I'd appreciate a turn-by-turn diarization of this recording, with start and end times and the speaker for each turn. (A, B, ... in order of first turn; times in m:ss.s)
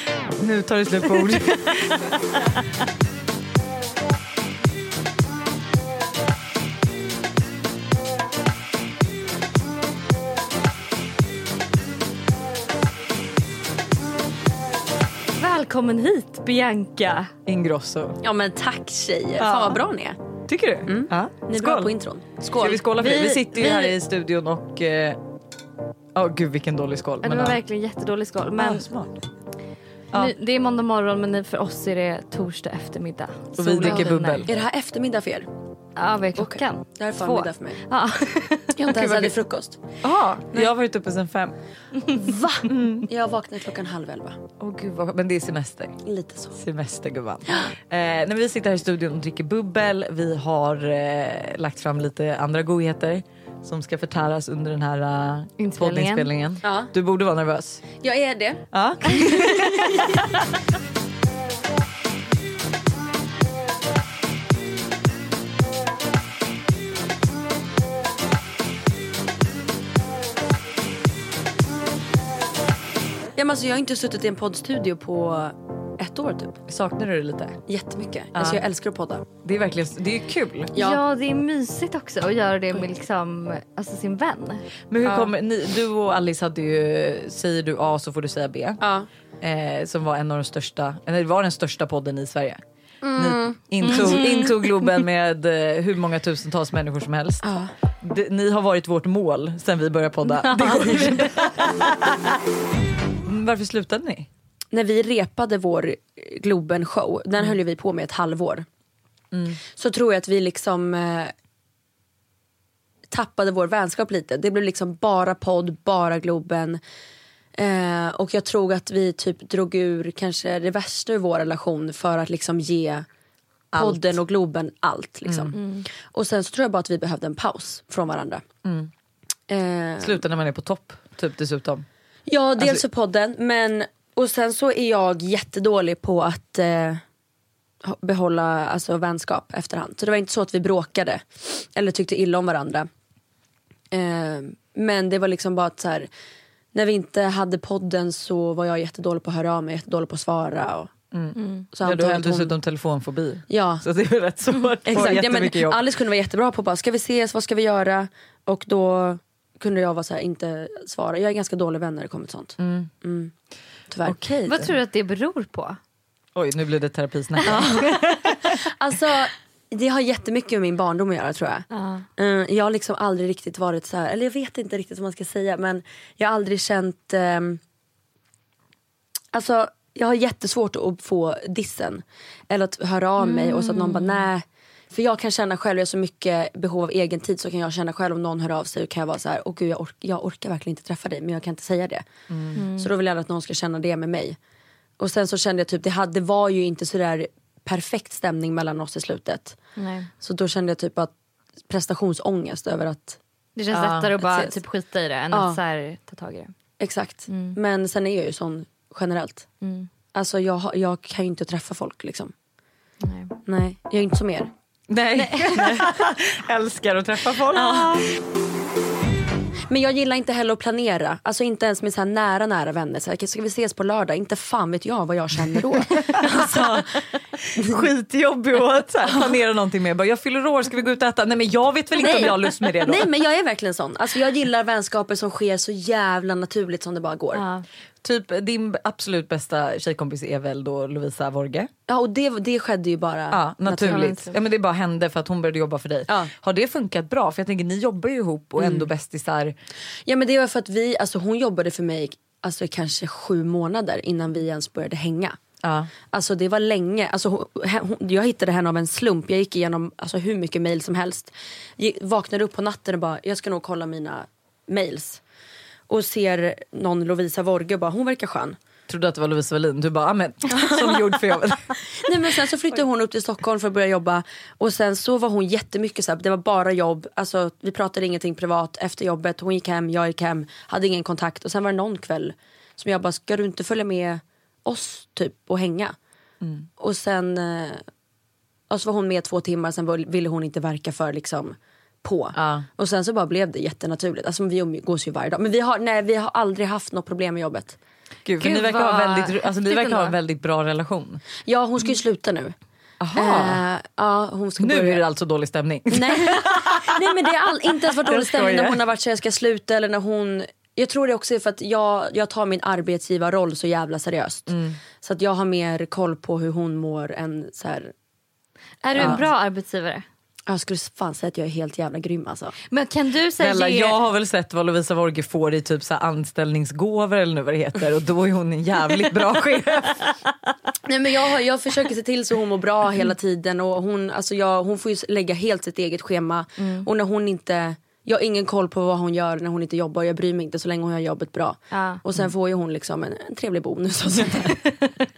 0:00.4-0:02.2 A
0:01.2-0:02.6 B
0:15.4-0:17.3 B
0:17.5-0:18.2 A
0:18.2-0:20.2 C
0:19.4-0:19.8 A
0:20.5-0:21.9 A
0:20.8-0:22.8 C
0:22.6-0:25.2 A
0:22.9-0:24.0 B
0:26.1-0:27.6 A
0:27.2-0:28.9 B
0:28.6-0:29.3 A
0:30.1-0:34.5 B
0:33.6-0:34.5 A
0:33.8-0:35.5 C
0:36.0-0:39.2 B
0:36.4-0:37.8 C
0:38.8-0:39.8 C
0:38.9-0:39.3 A
0:40.0-0:41.6 A
0:42.1-0:44.4 C
0:42.6-0:43.1 A
0:44.6-0:46.0 A
0:46.0-0:46.6 C
0:46.6-0:57.9 A
0:55.6-0:56.3 B
0:56.6-0:56.9 C
0:58.0-0:58.6 C
0:58.7-1:00.4 A
1:13.4-1:16.6 C
1:16.7-1:17.6 A
1:17.7-1:19.2 C
1:18.4-1:18.6 A
1:19.4-1:20.7 A
1:20.8-1:21.0 C
1:20.8-1:24.7 B
1:24.9-1:28.8 A
1:25.0-1:25.3 C
1:28.8-1:29.1 C
1:29.4-1:32.6 A
1:33.0-1:34.0 C
1:33.2-1:37.4 A
1:33.8-1:34.9 B
1:37.4-1:37.7 C
1:38.0-1:42.4 A
1:40.4-1:41.5 B
1:43.2-1:44.3 A
1:44.7-1:48.7 C
1:49.3-1:49.6 A
1:49.7-1:51.3 C
1:53.1-1:56.8 C
1:57.6-2:03.1 C
2:03.7-2:04.2 A
2:03.7-2:08.4 C
2:05.3-2:05.6 A
2:05.6-2:05.9 B
2:08.6-2:08.9 A
2:09.5-2:10.2 C
2:10.0-2:11.9 A
2:12.3-2:17.0 C
2:17.8-2:22.9 C
2:23.9-2:26.1 C
2:26.7-2:30.9 C
2:31.1-2:35.8 A
2:31.4-2:31.6 B
2:31.7-2:32.6 C
2:33.5-2:33.8 C
2:34.9-2:43.3 C
2:42.6-2:42.9 A
2:43.9-2:44.2 C
2:44.0-2:44.8 A
2:44.5-2:45.8 B
2:46.4-2:48.0 A
2:47.5-2:51.6 C
2:47.5-2:48.1 B
2:51.7-2:52.1 B
2:52.2-2:57.6 C
2:59.3-3:12.0 C
3:03.2-3:04.3 B
3:12.3-3:12.6 A
3:12.6-3:12.9 B
3:12.7-3:14.4 C
3:15.0-3:19.6 C
3:19.8-3:20.1 B
3:20.2-3:21.1 C
3:21.7-3:23.2 C
3:23.6-3:26.5 B
3:23.7-3:24.1 A
3:24.2-3:24.5 C
3:25.3-3:25.6 C
3:26.8-3:29.5 C
3:27.3-3:27.6 B
3:29.6-3:29.9 B
3:30.1-3:32.3 C
3:33.0-3:33.4 B
3:33.5-3:34.5 C
3:34.9-3:38.1 A
3:35.2-3:35.9 B
3:37.6-3:38.0 B
3:39.7-3:47.0 C
3:46.0-3:53.1 A
3:47.6-3:47.8 C
3:52.0-3:57.4 C
3:57.3-3:57.6 B
3:58.0-4:01.7 A
4:01.9-4:04.2 C
4:03.3-4:09.5 A
4:03.8-4:04.4 B
4:08.6-4:08.9 C
4:10.1-4:15.4 C
4:15.6-4:15.9 A
4:16.1-4:25.2 C
4:25.9-4:28.6 C
4:28.9-4:31.7 A
4:30.5-4:31.2 C
4:32.0-4:46.0 C
4:46.4-4:46.7 A
4:46.8-4:47.8 C
4:48.7-4:57.8 C
4:52.3-4:52.7 A
4:58.2-5:01.2 A
4:58.4-5:00.2 B
5:01.4-5:02.5 C
5:03.0-5:03.6 A
5:03.2-5:05.0 C
5:04.6-5:08.8 A
5:05.9-5:17.9 C
5:14.5-5:14.8 A
5:18.8-5:20.0 B
5:19.0-5:19.2 C
5:19.0-5:19.2 A
5:20.5-5:22.5 C
5:22.7-5:24.0 B
5:23.4-5:30.1 A
5:30.8-5:44.6 C
5:36.6-5:36.9 B
5:41.7-5:42.0 B